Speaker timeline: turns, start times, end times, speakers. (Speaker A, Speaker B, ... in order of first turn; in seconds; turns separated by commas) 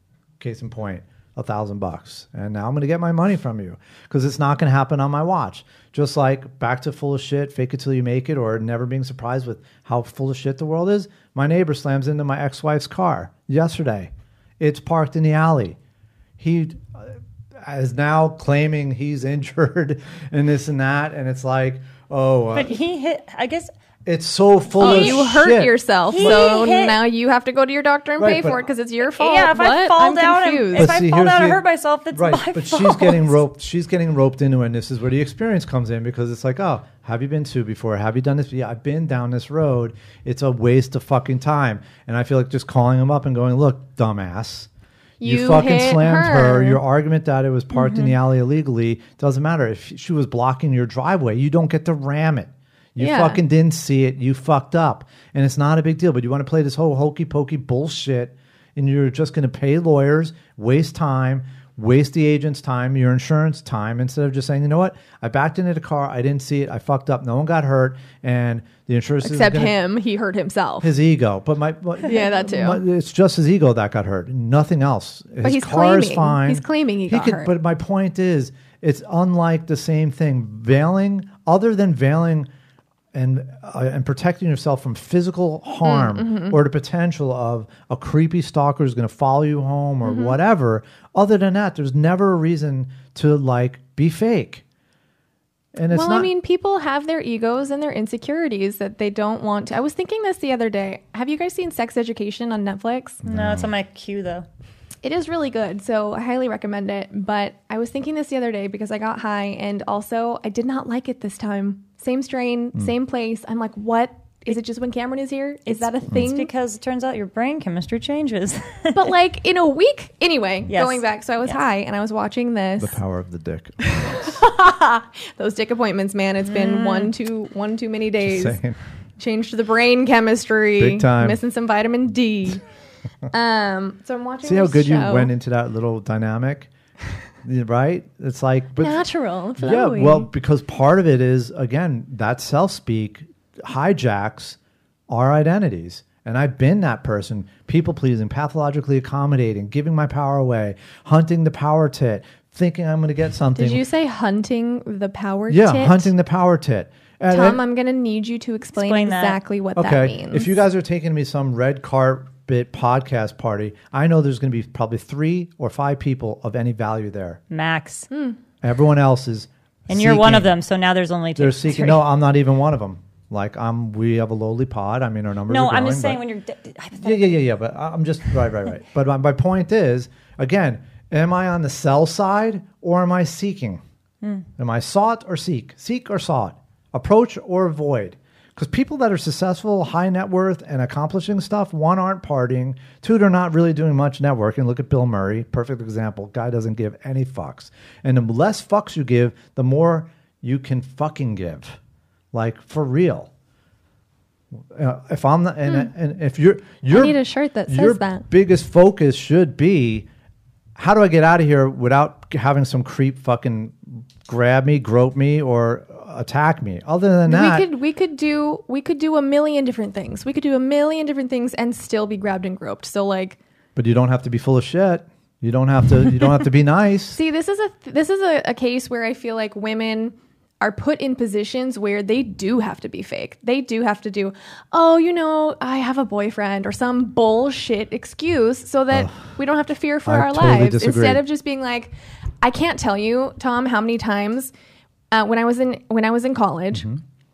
Speaker A: 0.4-15.8, Speaker A: 16.4-22.8, Speaker B: 22.5-23.7, Speaker A: 24.1-26.5, Speaker B: 24.8-25.3, Speaker C: 24.8-30.9, Speaker B: 26.1-27.0, Speaker A: 28.2-28.6, Speaker B: 29.1-33.4, Speaker A: 30.7-31.6, Speaker A: 32.1-44.7, Speaker C: 45.2-46.8, Speaker A: 45.2-69.8, Speaker C: 47.7-48.1, Speaker C: 53.0-53.4, Speaker C: 69.2-70.9, Speaker A: 70.8-82.5, Speaker C: 72.0-72.8, Speaker C: 75.4-77.5, Speaker A: 83.1-94.6, Speaker C: 85.8-86.6, Speaker C: 90.0-90.4, Speaker A: 95.7-96.3, Speaker C: 95.9-103.2, Speaker A: 103.2-103.7, Speaker B: 103.2-104.5, Speaker C: 105.0-116.5, Speaker B: 115.7-119.1, Speaker C: 118.9-123.0, Speaker B: 120.7-121.6, Speaker A: 122.8-124.4, Speaker C: 123.8-128.6, Speaker B: 126.5-127.1, Speaker A: 128.2-128.8, Speaker C: 129.2-132.6, Speaker A: 130.8-131.4, Speaker C: 133.3-135.3, Speaker A: 134.4-136.7, Speaker A: 137.4-139.0, Speaker C: 138.8-140.3, Speaker A: 139.6-144.6, Speaker A: 145.1-153.8, Speaker C: 153.6-156.1, Speaker A: 155.5-157.6, Speaker C: 157.3-160.5, Speaker B: 158.7-159.4, Speaker A: 159.8-167.4, Speaker B: 167.5-168.1, Speaker C: 168.1-168.4, Speaker A: 168.6-170.5, Speaker B: 169.9-172.1, Speaker A: 171.3-176.2, Speaker B: 175.5-177.4, Speaker A: 177.0-183.8, Speaker A: 184.6-201.8, Speaker A: 202.3-203.3, Speaker A: 204.6-210.1, Speaker C: 206.9-208.2, Speaker A: 210.8-217.7, Speaker C: 217.3-223.4, Speaker A: 223.8-227.2, Speaker C: 227.1-244.5, Speaker A: 238.9-239.2, Speaker A: 240.1-241.2, Speaker C: 245.1-246.9, Speaker A: 246.7-247.0